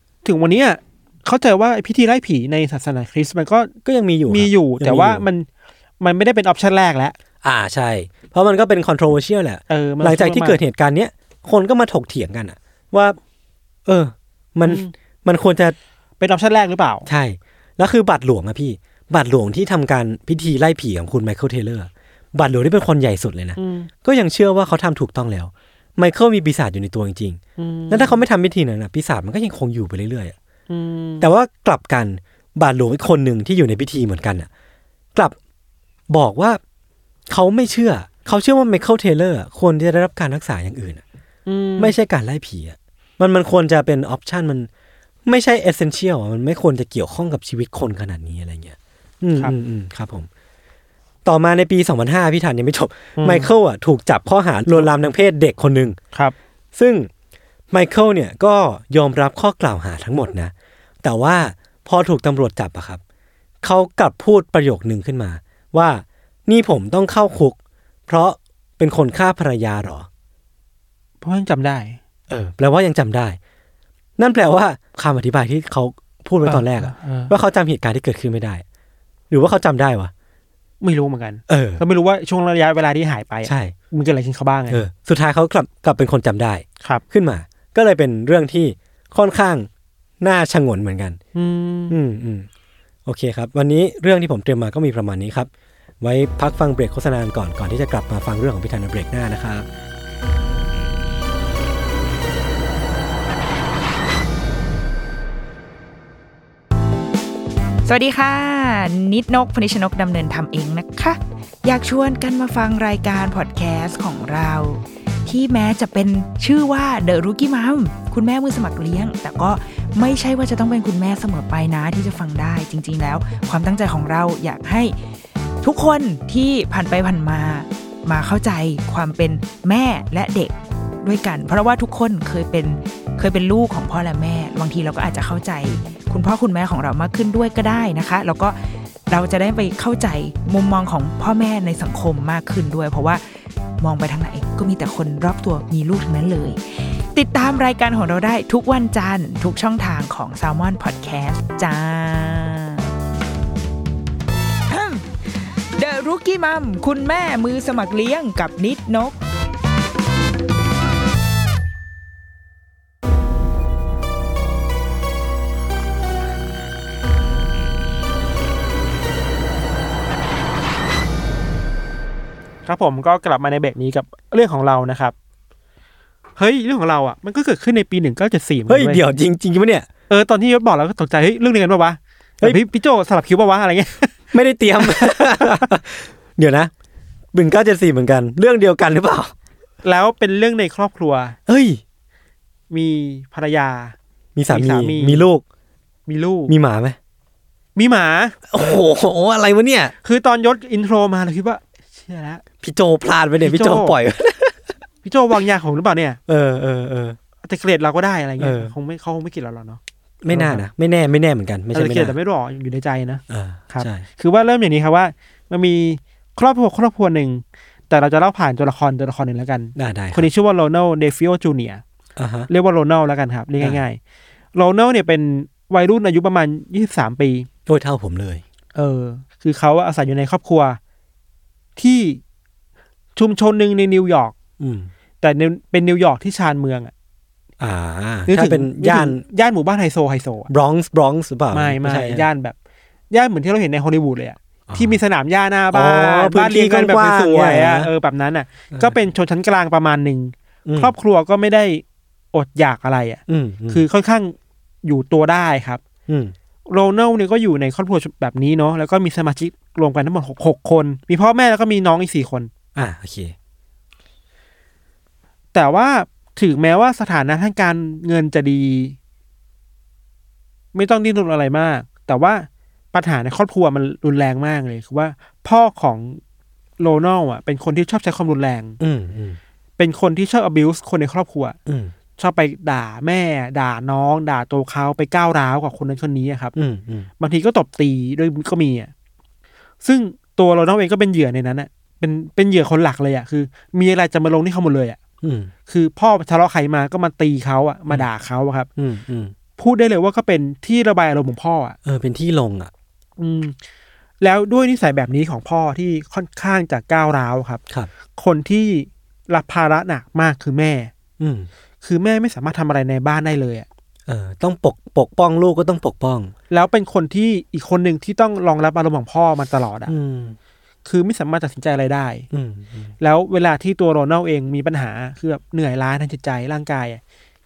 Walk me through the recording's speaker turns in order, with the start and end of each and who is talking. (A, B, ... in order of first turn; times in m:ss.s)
0:00.2-0:03.7 A
0:03.8-0:05.2 B
0:04.3-0:05.5 A
0:06.0-0:07.2 A
0:07.4-0:13.2 B
0:09.7-0:10.6 A
0:13.8-0:15.8 B
0:14.6-0:14.9 A
0:16.2-0:17.1 A
0:17.1-0:30.3 B
0:23.6-0:23.9 A
0:27.6-0:28.2 A
0:30.7-0:31.3 A
0:31.2-0:34.5 B
0:36.1-0:36.6 B
0:37.3-0:41.0 B
0:41.4-0:41.9 A
0:41.8-0:44.7 B
0:45.2-0:50.3 B
0:51.2-0:56.0 B
0:53.2-0:53.5 A
0:56.7-0:57.1 B
0:57.7-1:03.0 B
1:03.6-1:07.6 B
1:08.1-1:10.1 B
1:11.2-1:12.0 A
1:12.3-1:13.4 B
1:14.2-1:18.6 B
1:16.4-1:17.3 A
1:19.3-1:20.1 B
1:20.8-1:24.8 A
1:21.5-1:21.8 B
1:23.4-1:23.7 B
1:24.7-1:29.7 B
1:30.2-1:31.2 B
1:31.3-1:32.0 A
1:31.9-1:32.5 B
1:33.0-1:35.5 B
1:36.0-1:39.7 B
1:47.8-2:05.0 C
2:05.6-2:23.2 C
2:23.8-2:32.9 C
2:34.7-2:39.2 C
2:52.6-2:55.1 A
2:56.4-2:59.0 A
2:58.7-2:59.9 B
3:00.1-3:04.2 A
3:04.3-3:06.7 B
3:04.8-3:05.7 A
3:07.3-3:09.3 B
3:09.8-3:11.4 A
3:11.5-3:11.8 B
3:12.7-3:14.0 A
3:14.4-3:15.4 B
3:14.5-3:15.3 A
3:16.1-3:16.5 A
3:16.5-3:17.0 B
3:17.8-3:18.4 A
3:18.5-3:19.9 B
3:20.0-3:22.4 A
3:22.6-3:24.7 B
3:23.4-3:24.0 A
3:25.0-3:26.2 A
3:26.3-3:27.2 B
3:27.4-3:30.6 A
3:28.4-3:28.7 B
3:30.2-3:32.1 B
3:31.7-3:41.8 A
3:33.3-3:34.0 B
3:39.7-3:40.3 B
3:42.2-3:42.5 B
3:42.5-3:44.0 A
3:44.5-3:47.5 A
3:47.7-3:48.4 B
3:48.7-3:50.8 A
3:51.8-3:52.2 A
3:53.2-3:54.3 A
3:54.6-3:54.9 B
3:55.2-3:56.9 A
3:57.6-3:59.2 B
3:58.3-4:00.5 A
4:00.5-4:02.2 B
4:01.5-4:02.6 A
4:03.1-4:15.8 A
4:04.7-4:05.0 B
4:05.7-4:07.9 B
4:10.6-4:10.9 B
4:13.3-4:13.8 B
4:16.1-4:16.3 B
4:16.7-4:22.5 A
4:22.7-4:23.3 B
4:25.5-4:29.0 A
4:30.7-4:36.2 A
4:36.8-4:38.8 A
4:38.8-4:39.4 B
4:39.8-4:41.6 A
4:41.6-4:41.9 B
4:42.2-4:46.5 A
4:46.5-4:47.1 B
4:47.2-4:48.9 A
4:49.8-4:55.0 A
4:55.2-4:55.5 B
4:55.7-4:58.7 A
4:58.8-4:59.3 B
4:59.6-5:01.8 A
5:01.8-5:02.7 B
5:03.2-5:03.6 A
5:04.2-5:07.6 A
5:08.2-5:10.9 A
5:11.2-5:11.5 B
5:11.8-5:13.7 A
5:14.1-5:16.3 B
5:16.5-5:19.9 A
5:19.8-5:20.4 B
5:20.8-5:22.3 A
5:22.3-5:22.9 B
5:23.0-5:27.0 A